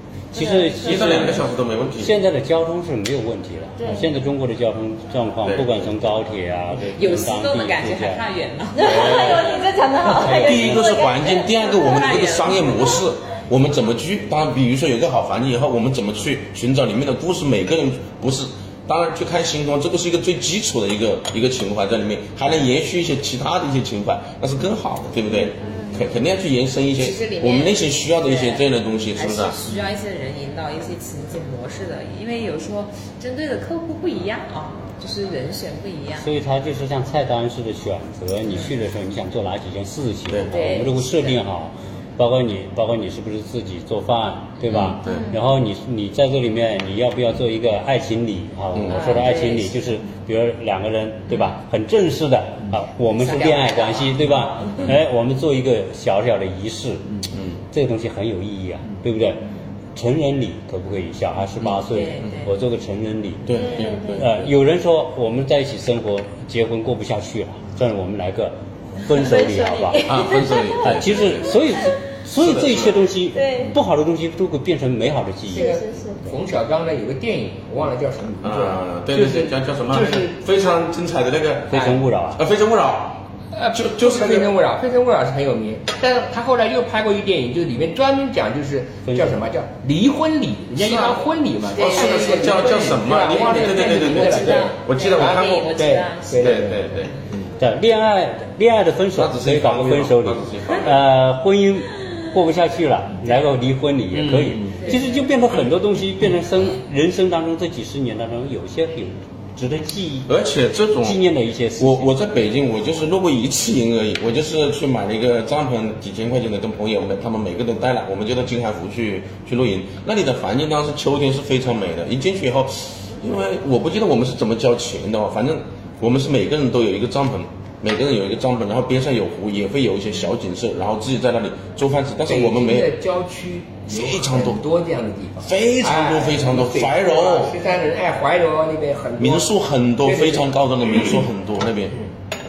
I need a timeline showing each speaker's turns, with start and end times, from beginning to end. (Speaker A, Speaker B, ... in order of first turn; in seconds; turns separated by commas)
Speaker A: 0.3-1.4, Speaker B: 0.3-1.5, Speaker C: 0.8-2.1, Speaker A: 2.0-8.2, Speaker B: 3.8-4.2, Speaker C: 5.5-5.7, Speaker C: 6.8-7.2, Speaker D: 7.0-9.1, Speaker B: 8.8-13.0, Speaker C: 8.8-9.5, Speaker C: 10.0-29.6, Speaker B: 25.6-25.9, Speaker D: 27.0-36.3, Speaker A: 36.2-70.1, Speaker C: 40.3-40.5, Speaker D: 40.5-41.4, Speaker D: 44.7-45.0, Speaker B: 44.7-45.4, Speaker C: 44.8-45.4, Speaker C: 48.7-49.3, Speaker D: 48.9-49.9, Speaker D: 53.2-54.9, Speaker C: 57.3-57.6, Speaker D: 61.8-62.5, Speaker C: 63.5-64.4, Speaker B: 63.5-64.3, Speaker B: 69.1-71.7, Speaker C: 70.0-71.6, Speaker A: 70.8-75.8, Speaker C: 72.4-73.0, Speaker B: 73.3-73.8, Speaker B: 75.5-76.3, Speaker E: 75.5-80.4, Speaker C: 78.4-84.5, Speaker A: 81.7-82.4, Speaker E: 83.5-96.8, Speaker A: 89.0-89.4, Speaker A: 90.7-91.2, Speaker C: 91.7-95.8, Speaker D: 91.7-92.9, Speaker D: 93.5-97.3, Speaker C: 96.4-97.1, Speaker A: 97.6-110.3, Speaker C: 99.1-101.0, Speaker E: 104.1-105.0, Speaker D: 104.8-105.3, Speaker C: 110.3-111.2, Speaker A: 111.0-112.1, Speaker C: 111.8-132.9, Speaker E: 132.3-140.6, Speaker C: 133.9-134.6, Speaker C: 135.4-137.6, Speaker C: 139.2-142.0